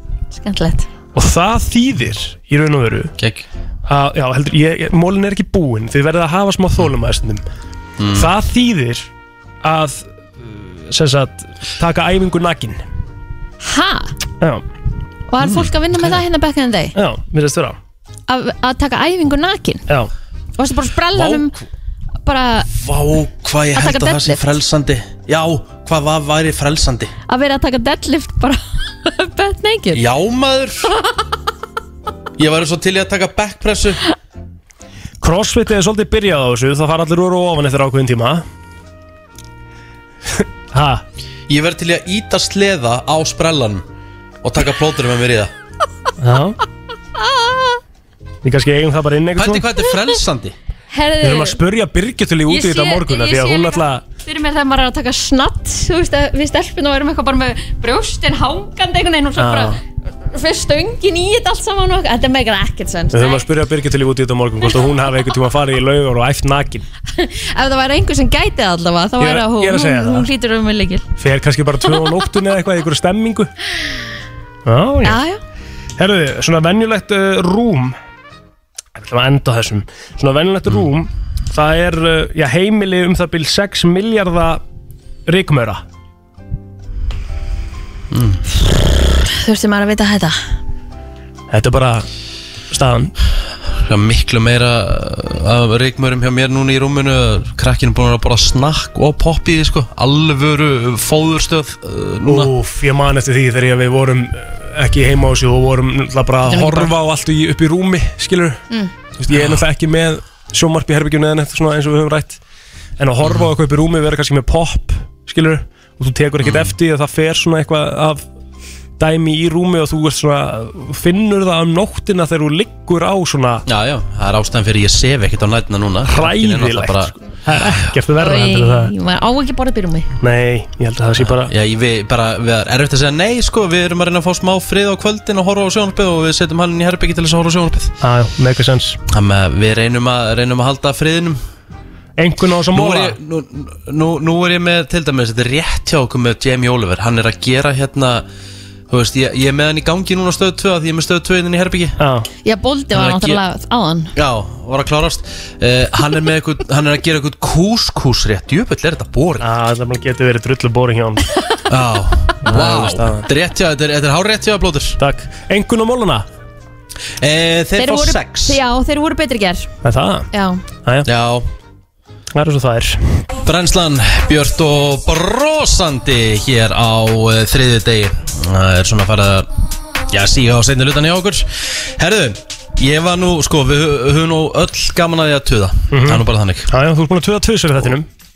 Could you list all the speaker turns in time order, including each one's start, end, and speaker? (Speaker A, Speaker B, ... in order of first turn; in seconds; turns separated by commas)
Speaker A: 0.3-0.9, Speaker B: 1.1-3.1, Speaker C: 3.2-3.5, Speaker B: 3.9-7.4, Speaker C: 8.0-8.3, Speaker B: 8.1-9.1, Speaker B: 9.6-12.8, Speaker A: 13.6-14.1, Speaker A: 15.3-16.9, Speaker C: 15.4-15.7, Speaker B: 16.9-17.8, Speaker A: 18.3-19.8, Speaker A: 20.6-21.6, Speaker C: 21.1-21.5, Speaker A: 22.2-22.7, Speaker C: 22.7-27.1, Speaker A: 23.7-24.4, Speaker A: 27.3-30.0, Speaker C: 29.9-30.9, Speaker C: 32.4-34.0, Speaker B: 35.2-38.4, Speaker B: 40.3-41.0, Speaker C: 41.5-43.9, Speaker C: 44.4-45.5, Speaker B: 46.2-46.6, Speaker B: 48.4-49.7, Speaker C: 49.4-50.5, Speaker A: 50.9-51.6, Speaker B: 51.2-54.0, Speaker A: 52.5-59.8, Speaker B: 59.4-59.8, Speaker A: 60.3-63.4, Speaker B: 63.1-66.8, Speaker A: 67.1-71.1, Speaker B: 69.2-70.3, Speaker B: 71.2-73.5, Speaker B: 74.7-75.2, Speaker A: 75.0-75.4, Speaker B: 76.0-78.0, Speaker B: 78.9-84.6, Speaker B: 85.3-85.8, Speaker C: 88.1-88.4, Speaker A: 88.6-90.4, Speaker B: 91.5-92.0, Speaker B: 92.7-93.1, Speaker C: 93.7-102.5, Speaker B: 102.2-108.6, Speaker A: 106.5-106.9, Speaker B: 109.2-112.4, Speaker C: 109.3-109.6, Speaker B: 113.0-118.2, Speaker C: 113.2-113.5, Speaker C: 116.4-116.7, Speaker B: 119.0-123.6, Speaker C: 123.7-127.9, Speaker B: 126.0-128.9, Speaker A: 128.2-130.1, Speaker B: 130.2-131.5, Speaker C: 131.2-137.9, Speaker B: 138.0-139.0, Speaker C: 139.1-141.4, Speaker B: 142.2-143.1, Speaker C: 142.7-148.2, Speaker C: 148.9-151.9, Speaker B: 152.0-152.3, Speaker A: 152.4-154.1, Speaker C: 152.9-153.4, Speaker C: 154.1-159.4, Speaker B: 159.4-161.2, Speaker C: 161.7-165.0, Speaker B: 162.4-163.3, Speaker B: 165.0-166.2, Speaker C: 167.2-168.6, Speaker A: 167.8-169.7, Speaker B: 169.8-170.3, Speaker A: 170.3-170.6, Speaker C: 171.0-171.5, Speaker B: 172.3-173.0, Speaker C: 173.4-179.5, Speaker C: 180.1-186.7, Speaker B: 185.9-188.1